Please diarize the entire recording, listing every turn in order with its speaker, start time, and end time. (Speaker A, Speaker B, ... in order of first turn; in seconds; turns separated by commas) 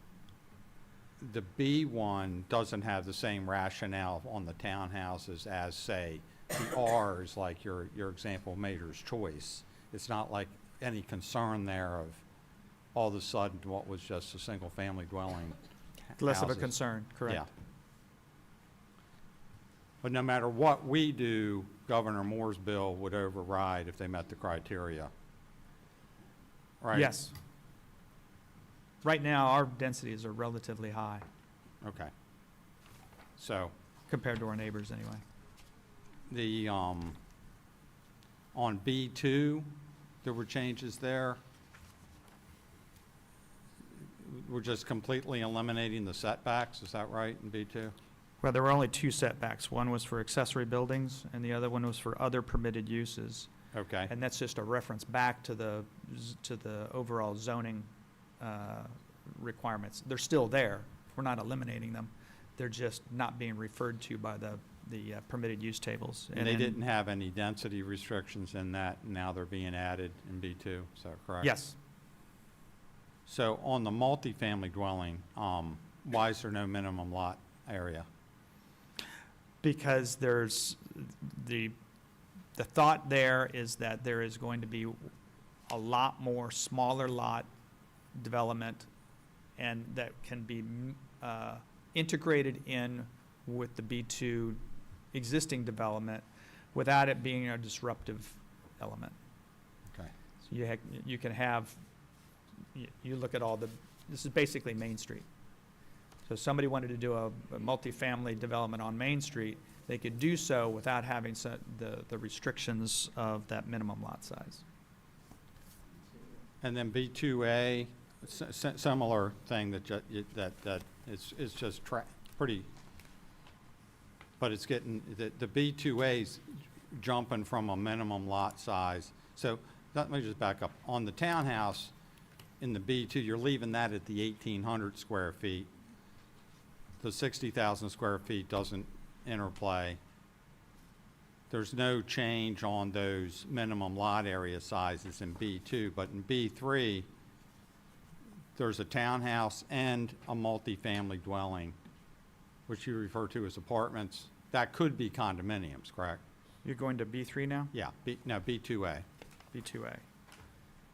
Speaker A: 1.2-12.2, Speaker A: 12.9-15.6, Speaker A: 16.1-16.7, Speaker B: 16.2-17.4, Speaker A: 20.0-25.1, Speaker A: 26.8-27.1, Speaker B: 26.9-27.3, Speaker B: 29.0-31.2, Speaker A: 31.8-32.1, Speaker A: 33.4-33.7, Speaker B: 34.1-35.2, Speaker A: 36.3-37.2, Speaker A: 38.5-39.7, Speaker A: 40.2-41.4, Speaker A: 44.2-48.0, Speaker B: 48.4-53.5, Speaker A: 53.7-54.1, Speaker B: 54.1-57.9, Speaker B: 58.4-66.8, Speaker A: 66.3-71.5, Speaker B: 71.4-71.8, Speaker A: 73.3-78.1, Speaker B: 79.6-81.8, Speaker B: 82.6-85.1, Speaker B: 85.7-87.5, Speaker B: 88.2-88.9, Speaker B: 89.6-94.6, Speaker B: 95.1-99.2, Speaker B: 100.5-101.8, Speaker B: 102.8-105.3, Speaker B: 106.3-114.6, Speaker A: 116.6-122.7, Speaker A: 124.4-131.9, Speaker A: 132.6-135.7, Speaker A: 137.0-140.0, Speaker A: 141.5-147.1, Speaker A: 148.6-151.8, Speaker A: 152.7-156.2, Speaker B: 156.6-157.7, Speaker A: 157.7-159.1, Speaker B: 159.5-160.0